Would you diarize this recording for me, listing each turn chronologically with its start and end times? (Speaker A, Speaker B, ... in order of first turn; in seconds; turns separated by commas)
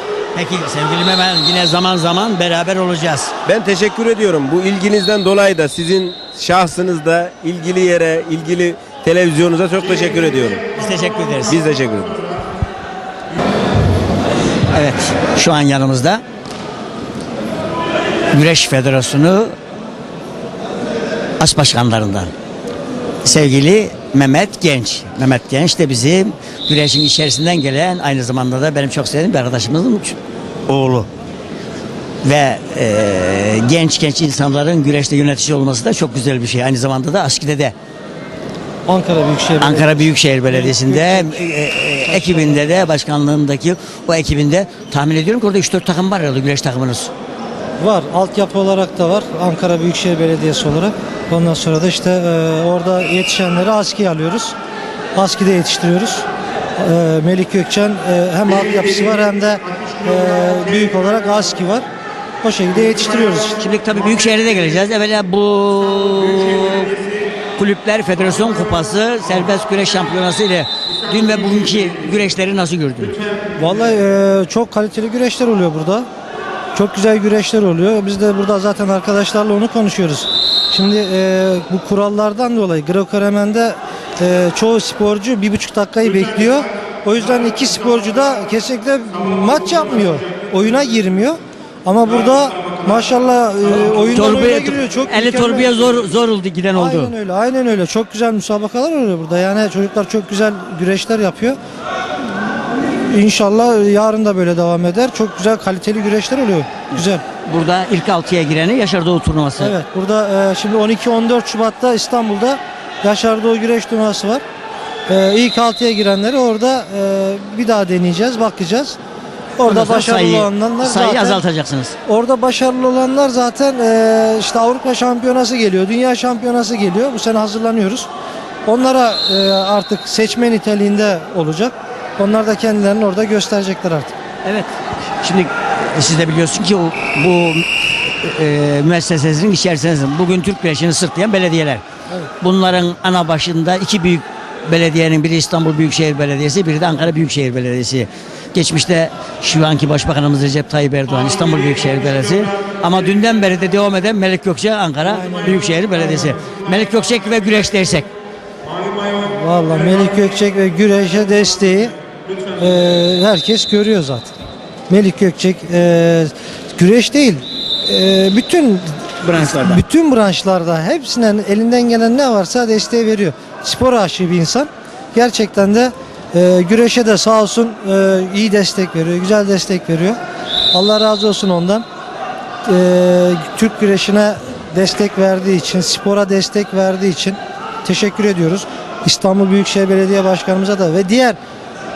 Speaker A: 0.4-3.3, Speaker B: 3.5-10.7, Speaker A: 10.8-11.6, Speaker B: 11.5-12.3, Speaker A: 14.7-16.2, Speaker A: 18.3-19.6, Speaker A: 21.4-22.3, Speaker A: 23.2-31.1, Speaker A: 32.2-37.7, Speaker C: 38.9-41.3, Speaker A: 39.6-47.1, Speaker C: 42.1-42.7, Speaker C: 47.8-54.5, Speaker C: 55.2-56.2, Speaker C: 56.8-61.9, Speaker C: 62.4-63.6, Speaker A: 63.6-67.0, Speaker A: 67.6-73.2, Speaker C: 73.6-76.1, Speaker C: 76.8-95.8, Speaker A: 94.1-97.1, Speaker C: 96.8-101.6, Speaker C: 102.2-107.2, Speaker A: 107.0-109.8, Speaker C: 109.6-114.4, Speaker C: 115.1-119.0, Speaker C: 119.6-121.4, Speaker A: 119.7-122.0, Speaker C: 122.1-128.1, Speaker C: 128.7-134.1, Speaker A: 134.4-141.8, Speaker A: 142.4-158.1, Speaker C: 155.0-156.3, Speaker C: 159.2-162.0, Speaker C: 162.6-164.3, Speaker C: 164.9-180.2, Speaker A: 169.2-169.8, Speaker C: 180.7-181.9, Speaker C: 182.7-191.4